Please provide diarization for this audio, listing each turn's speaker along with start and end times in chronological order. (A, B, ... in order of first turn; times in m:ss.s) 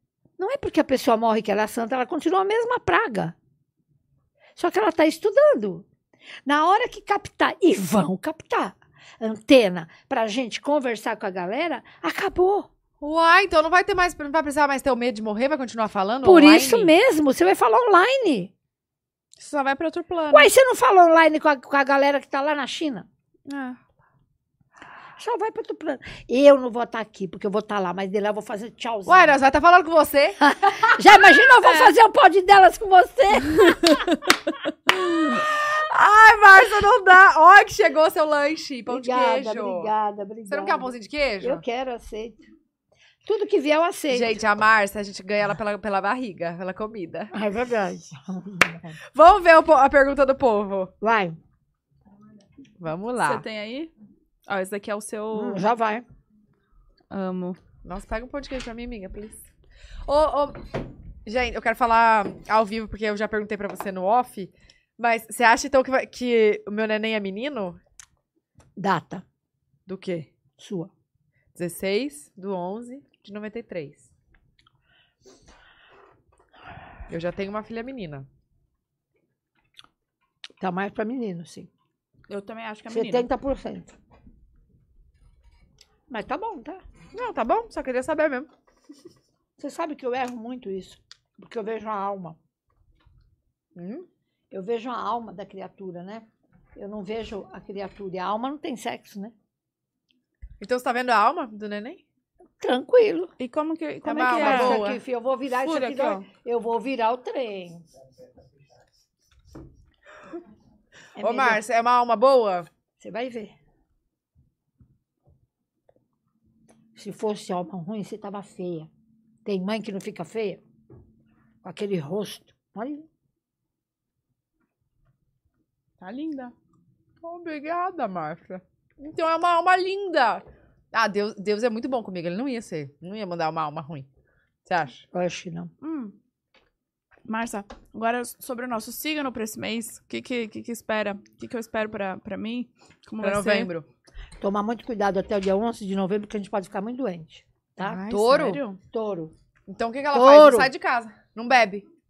0:00.4-0:03.3 A
0:04.6-0:05.8 A
0:06.4-0:12.7 A
0:13.0-0:16.9 B
0:16.2-0:18.5 A
0:19.4-0:20.5 C
0:20.3-0:23.1 A
0:23.4-0:23.8 C
0:25.2-0:29.4 A
0:29.0-0:31.0 B
0:30.4-0:34.0 A
0:35.3-0:39.9 B
0:38.9-0:42.4 A
0:40.5-0:41.6 B
0:43.2-0:44.4 A
0:44.1-0:47.3 B
0:47.3-0:48.9 A
0:49.1-0:50.9 B
0:51.0-0:51.4 A
0:52.8-0:53.4 B
0:53.2-0:53.9 C
0:54.5-0:55.7 C
0:55.3-0:56.0 A
0:57.1-0:57.6 C
0:57.8-0:59.4 B
1:00.0-1:07.8 B
1:08.8-1:09.2 A
1:09.8-1:10.3 B
1:10.6-1:10.9 A
1:11.5-1:14.1 B
1:17.1-1:18.3 B
1:20.6-1:21.7 A
1:22.3-1:23.3 C
1:22.9-1:23.9 A
1:26.1-1:26.8 A
1:27.1-1:28.5 B
1:29.6-1:32.4 A
1:33.7-1:34.0 B
1:34.5-1:39.3 A
1:40.6-1:42.0 B
1:42.6-1:43.3 A
1:43.4-1:44.9 C
1:44.0-1:45.0 B
1:44.2-1:47.8 A
1:45.6-1:46.2 C
1:51.2-1:51.6 A
1:51.2-1:52.7 B
1:53.0-1:53.5 A
1:57.0-1:58.9 A
1:59.4-2:00.6 A
2:01.6-2:03.0 A
2:06.0-2:06.5 C
2:07.2-2:14.1 B
2:14.6-2:15.0 B
2:15.1-2:15.7 A
2:15.8-2:16.1 C
2:17.2-2:23.7 C
2:23.2-2:23.9 B
2:24.4-2:28.0 A
2:27.8-2:28.6 B
2:28.0-2:28.8 C
2:28.9-2:29.3 A
2:29.7-2:31.8 B
2:30.1-2:30.7 A